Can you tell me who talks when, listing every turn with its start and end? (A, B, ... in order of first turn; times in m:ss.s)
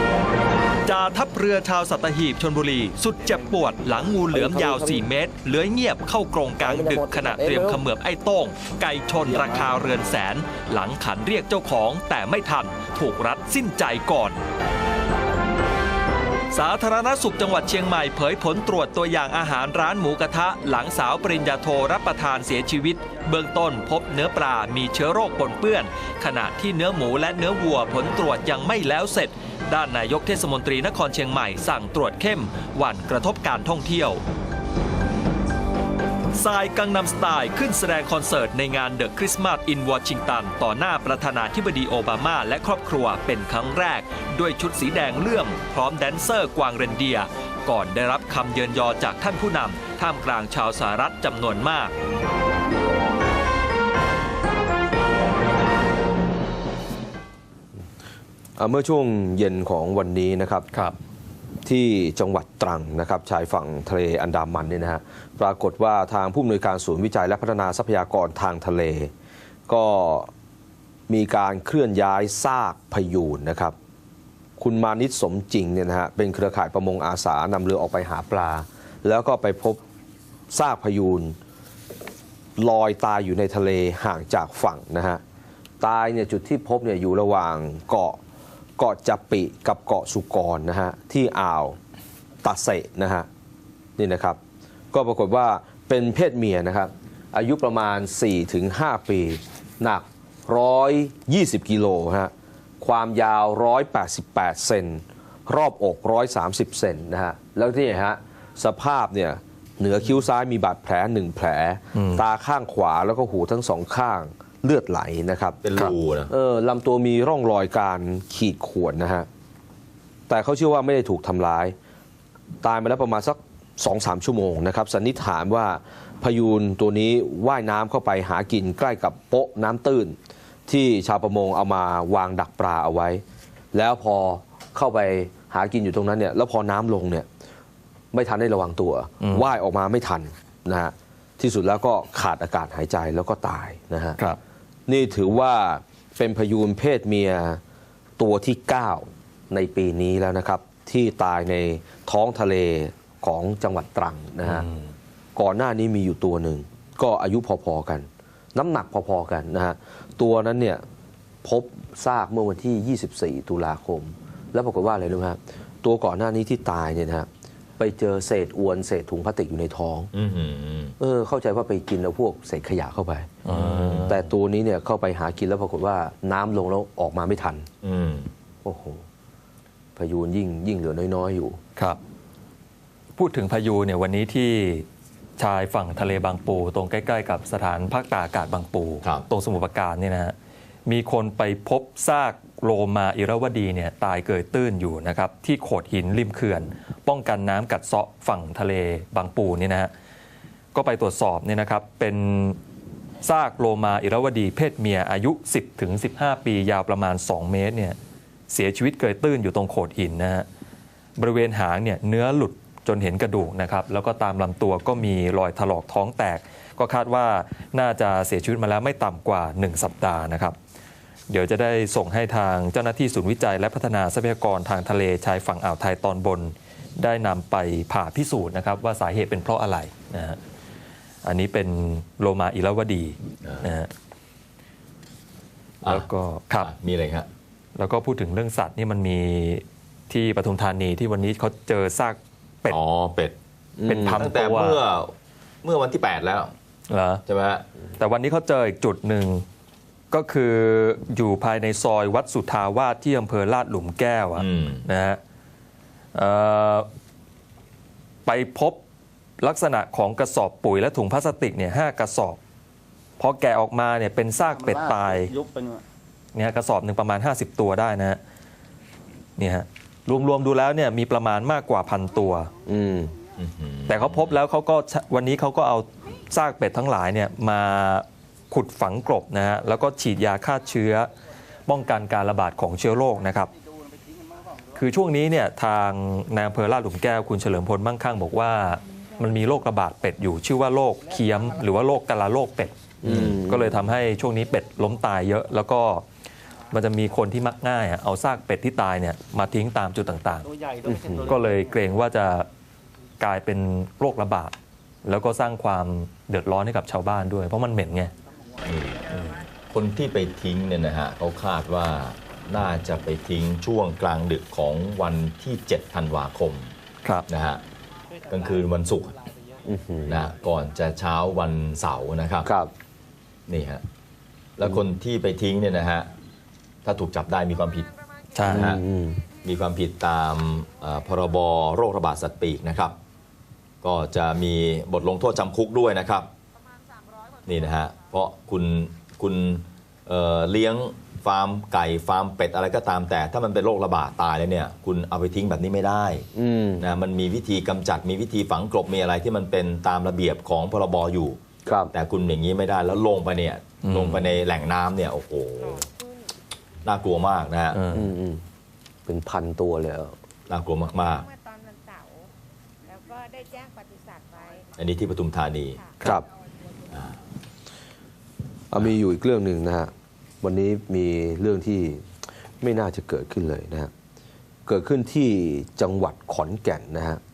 0:00.9-0:14.2 A
0:00.9-0:14.4 B
0:16.5-0:34.2 B
0:16.6-0:21.4 A
0:22.0-0:25.9 A
0:26.5-0:34.0 A
0:36.4-0:51.7 B
0:36.4-0:42.9 A
0:43.5-0:46.9 A
0:47.7-0:51.9 A
0:58.6-1:00.7 C
1:01.6-1:09.1 C
1:09.7-1:10.3 C
1:11.1-1:13.7 C
1:14.6-1:19.8 C
1:20.5-1:21.4 C
1:22.6-1:25.2 C
1:25.8-1:28.2 C
1:28.8-1:31.8 C
1:32.4-1:33.3 C
1:34.0-1:34.4 C
1:34.9-1:55.6 C
1:51.9-1:52.2 B
1:55.6-1:56.3 D
1:56.3-1:59.3 C
2:00.3-2:01.7 C
2:02.6-2:17.2 C
2:18.1-2:24.2 C
2:19.2-2:19.5 B
2:24.9-2:27.6 C
2:28.2-2:34.7 C
2:34.4-2:34.9 B
2:35.4-2:40.8 C
2:41.4-2:47.3 C
2:47.8-2:50.1 C
2:50.1-2:51.0 D
2:51.0-2:53.3 C
2:53.4-2:54.2 B
2:53.5-2:54.2 D
2:54.1-2:57.7 C
2:57.8-2:58.3 D
2:58.6-2:59.0 C
3:00.0-3:01.6 C
3:03.2-3:04.8 B
3:05.4-3:10.3 B
3:10.8-3:19.9 B
3:20.7-3:22.6 B
3:23.2-3:28.0 B
3:28.5-3:30.4 B
3:31.2-3:40.6 B
3:41.3-3:50.4 B
3:51.2-3:53.9 B
3:55.8-3:56.7 B
3:56.6-3:57.3 D
3:57.8-4:02.8 B
4:02.7-4:03.4 D
4:03.8-4:04.2 C
4:03.9-4:04.8 B
4:04.1-4:06.5 D
4:06.9-4:07.2 B
4:07.2-4:07.6 D
4:08.0-4:09.4 B
4:10.1-4:15.2 B
4:14.4-4:14.8 D
4:16.1-4:16.9 B
4:18.2-4:18.8 B
4:19.4-4:22.4 B
4:23.2-4:25.3 B
4:26.3-4:28.2 B
4:29.4-4:32.5 B
4:32.6-4:33.1 C
4:33.4-4:34.4 D
4:33.9-4:41.1 B
4:41.7-4:43.5 B
4:44.7-4:56.0 B
4:53.0-4:53.8 C
4:56.7-5:00.5 B
5:00.8-5:01.4 C
5:01.2-5:02.5 B
5:03.2-5:04.5 B
5:05.0-5:08.1 B
5:08.6-5:09.0 D
5:09.1-5:09.4 B
5:09.7-5:16.7 D
5:17.3-5:17.6 D
5:18.3-5:19.1 D
5:19.6-5:20.2 C
5:20.1-5:22.5 D
5:22.4-5:22.7 C
5:23.5-5:23.8 D
5:24.6-5:26.1 D
5:26.8-5:27.9 D
5:28.3-5:28.7 B
5:28.4-5:28.8 D
5:28.5-5:29.2 C
5:29.4-5:33.0 D
5:33.8-5:36.3 D
5:37.4-5:46.3 D
5:46.3-5:46.8 C
5:46.8-5:51.4 D
5:51.6-5:51.9 C
5:51.9-5:55.9 D
5:53.8-5:54.3 B
5:55.8-5:56.2 E
5:56.8-5:57.8 D
5:57.7-5:58.1 B
5:57.9-5:58.4 C
5:59.0-6:00.1 C
6:00.5-6:01.3 D
6:01.3-6:02.3 E
6:02.9-6:04.6 E
6:04.8-6:05.8 D
6:08.7-6:13.9 C
6:14.6-6:17.2 C